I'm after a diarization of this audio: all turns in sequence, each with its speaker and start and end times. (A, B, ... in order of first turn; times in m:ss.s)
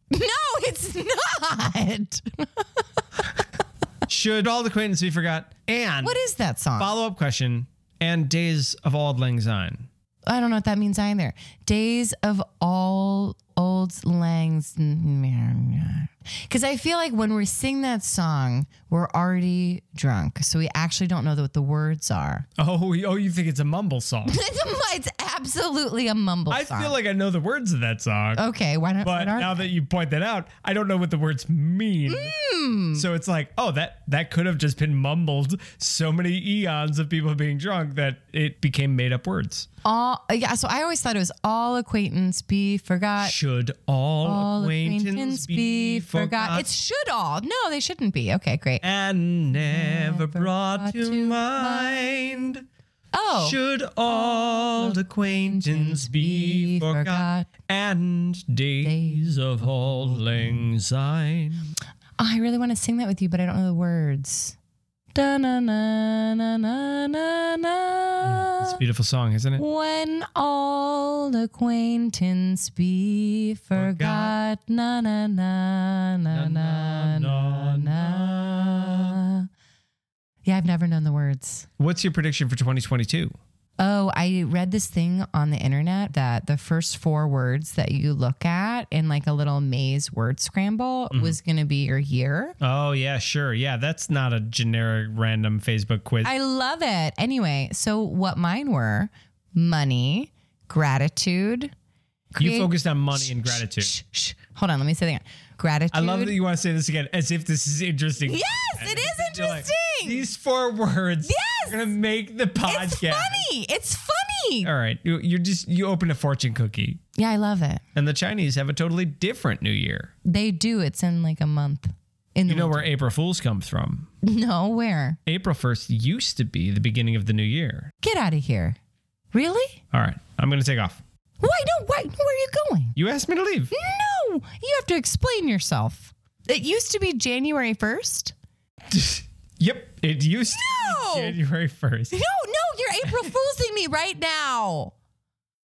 0:00.1-0:02.8 A
0:04.1-0:06.2 B
0:06.0-0:06.9 A
0:06.8-0:09.9 B
0:10.2-0:22.4 A
0:22.6-0:24.4 B
0:24.2-0:27.0 A
0:26.5-0:28.4 B
0:28.3-0:29.7 A
0:29.0-0:32.3 B
0:32.1-0:33.0 A
0:32.9-0:39.7 B
0:39.8-0:43.3 A
0:43.2-0:46.6 B
0:44.2-0:48.8 A
0:48.8-0:52.6 B
0:49.5-0:52.3 A
0:53.1-0:57.5 A
0:53.3-1:01.7 B
0:58.8-0:59.4 A
1:02.2-1:04.6 A
1:05.1-1:08.8 A
1:08.2-1:09.6 B
1:09.6-1:19.5 A
1:13.7-1:14.4 B
1:16.3-1:19.2 B
1:20.4-1:21.6 A
1:21.8-1:23.4 B
1:23.8-1:32.6 A
1:31.1-1:31.4 B
1:32.6-1:36.3 B
1:36.2-1:41.7 A
1:42.3-1:46.4 A
1:42.4-1:43.9 B
1:45.9-1:53.5 B
1:48.2-1:50.3 A
1:51.2-1:51.9 A
1:52.6-1:54.7 A
1:54.6-1:57.0 B
1:57.2-1:57.8 A
1:57.9-2:00.1 B
2:00.2-2:02.9 A
2:02.5-2:04.1 B
2:04.2-2:05.2 A
2:05.2-2:07.9 B
2:08.0-2:08.8 A
2:09.3-2:09.8 A
2:09.9-2:11.0 B
2:11.4-2:13.0 A
2:13.0-2:13.7 B
2:13.7-2:18.3 A
2:18.9-2:22.2 B
2:20.5-2:21.4 A
2:22.1-2:24.9 A